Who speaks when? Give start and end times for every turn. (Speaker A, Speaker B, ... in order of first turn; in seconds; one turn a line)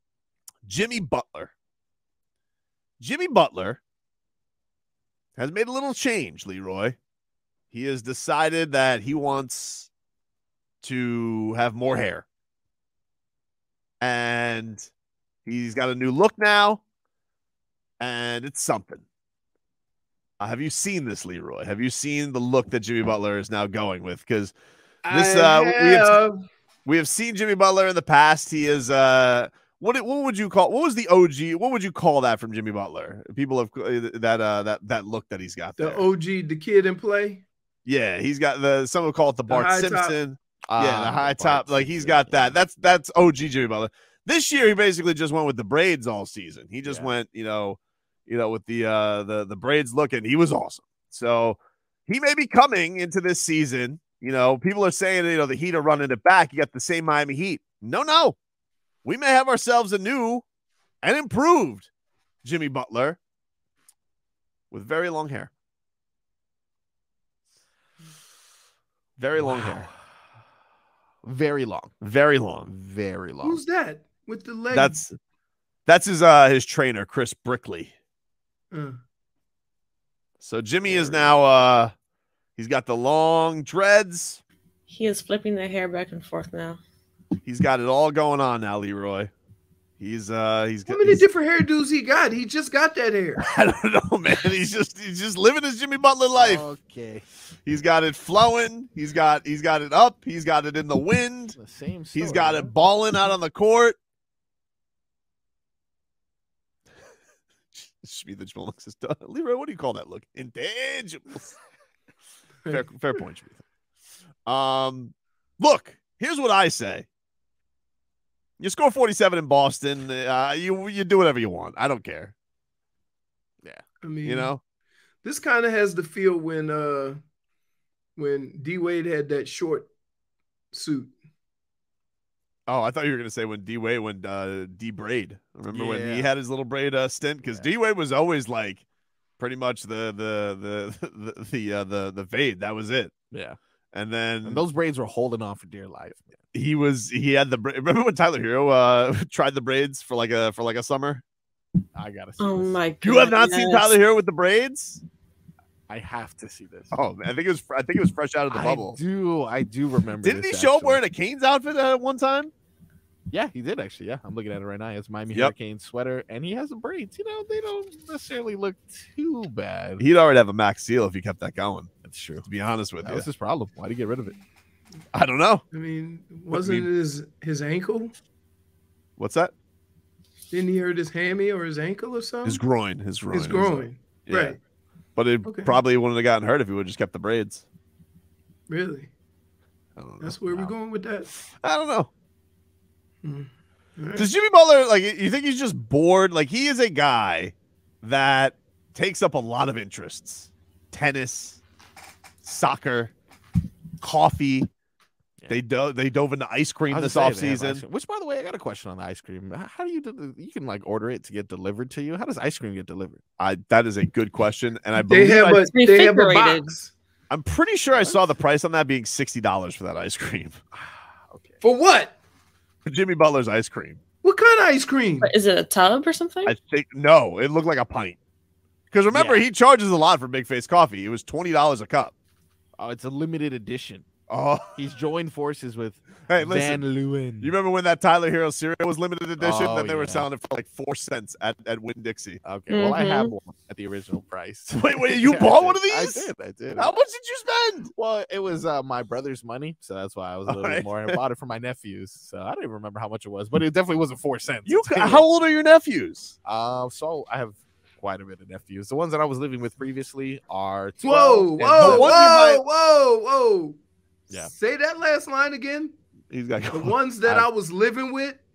Speaker A: 0.7-1.5
Speaker A: 3.0-3.8
Speaker A: 5.4-7.0
Speaker A: 7.7-9.9
Speaker A: 10.8-12.2
Speaker A: 14.0-14.9
Speaker A: 15.4-16.8
Speaker A: 18.0-19.0
Speaker A: 20.4-24.5
Speaker B: 25.0-26.4
Speaker A: 25.1-26.2
Speaker A: 26.8-36.0
Speaker B: 35.8-37.4
Speaker A: 37.9-58.4
Speaker B: 39.5-40.1
Speaker C: 40.7-42.6
Speaker C: 46.8-47.1
Speaker A: 59.0-60.4
Speaker A: 61.0-61.9
Speaker A: 62.4-63.2
Speaker A: 64.7-65.5
Speaker A: 69.2-69.9
Speaker C: 69.4-70.0
Speaker C: 71.2-71.9
Speaker A: 72.0-72.7
Speaker C: 72.6-73.6
Speaker B: 73.4-75.0
Speaker A: 74.7-75.2
Speaker A: 75.8-77.9
Speaker B: 78.7-79.0
Speaker A: 80.4-81.9
Speaker C: 80.8-81.3
Speaker A: 82.6-84.4
Speaker D: 84.9-86.8
Speaker A: 87.4-89.3
Speaker A: 90.0-91.2
Speaker B: 90.9-93.4
Speaker A: 93.4-96.7
Speaker C: 96.3-97.2
Speaker A: 97.7-101.6
Speaker C: 101.6-102.7
Speaker A: 102.1-104.0
Speaker A: 107.7-111.5
Speaker A: 112.7-113.6
Speaker A: 114.5-117.1
Speaker A: 118.6-122.3
Speaker B: 124.0-124.5
Speaker A: 124.2-124.6
Speaker B: 125.2-127.2
Speaker B: 128.2-129.9
Speaker B: 130.7-131.1
Speaker A: 132.7-138.8
Speaker C: 135.7-136.3
Speaker A: 139.4-143.1
Speaker C: 143.3-143.6
Speaker A: 143.9-144.6
Speaker C: 144.4-146.4
Speaker A: 146.5-151.2
Speaker C: 151.9-152.8
Speaker D: 152.4-153.9
Speaker A: 153.0-155.0
Speaker C: 155.9-156.9
Speaker A: 156.9-159.0
Speaker C: 158.5-161.0
Speaker A: 160.2-162.5
Speaker C: 163.3-170.0
Speaker A: 170.0-171.9
Speaker C: 172.0-172.5
Speaker A: 172.4-173.3
Speaker C: 173.0-174.4
Speaker A: 175.1-175.6
Speaker B: 175.7-178.1
Speaker A: 176.5-176.9
Speaker A: 179.2-179.5
Speaker B: 180.5-182.6
Speaker A: 182.4-184.6
Speaker B: 183.3-184.6
Speaker A: 185.2-187.7
Speaker B: 185.4-185.8
Speaker B: 188.7-189.1
Speaker A: 190.0-190.7
Speaker B: 190.2-191.3
Speaker A: 191.3-192.1
Speaker B: 193.2-194.3
Speaker A: 194.2-201.6
Speaker A: 202.4-203.1
Speaker A: 204.0-204.7
Speaker A: 205.5-207.8
Speaker C: 206.9-213.2
Speaker A: 213.4-215.6
Speaker B: 215.1-216.9
Speaker D: 215.7-216.7
Speaker A: 217.3-220.6
Speaker C: 220.7-221.6
Speaker B: 221.6-222.2
Speaker A: 222.8-224.0
Speaker B: 224.2-225.3
Speaker D: 225.2-226.5
Speaker A: 226.4-228.2
Speaker A: 228.9-232.1
Speaker C: 229.1-229.4
Speaker C: 232.8-234.1
Speaker A: 234.3-234.8
Speaker C: 234.7-237.5
Speaker A: 236.3-236.8
Speaker A: 237.4-242.4
Speaker C: 239.4-240.3
Speaker C: 242.4-246.9
Speaker D: 242.7-243.3
Speaker A: 244.7-247.9
Speaker C: 247.9-255.2
Speaker A: 250.5-251.2
Speaker A: 254.7-256.3
Speaker C: 256.4-262.2
Speaker B: 261.0-263.8
Speaker A: 261.8-262.6
Speaker B: 264.3-265.9
Speaker A: 266.3-266.9
Speaker B: 266.7-268.4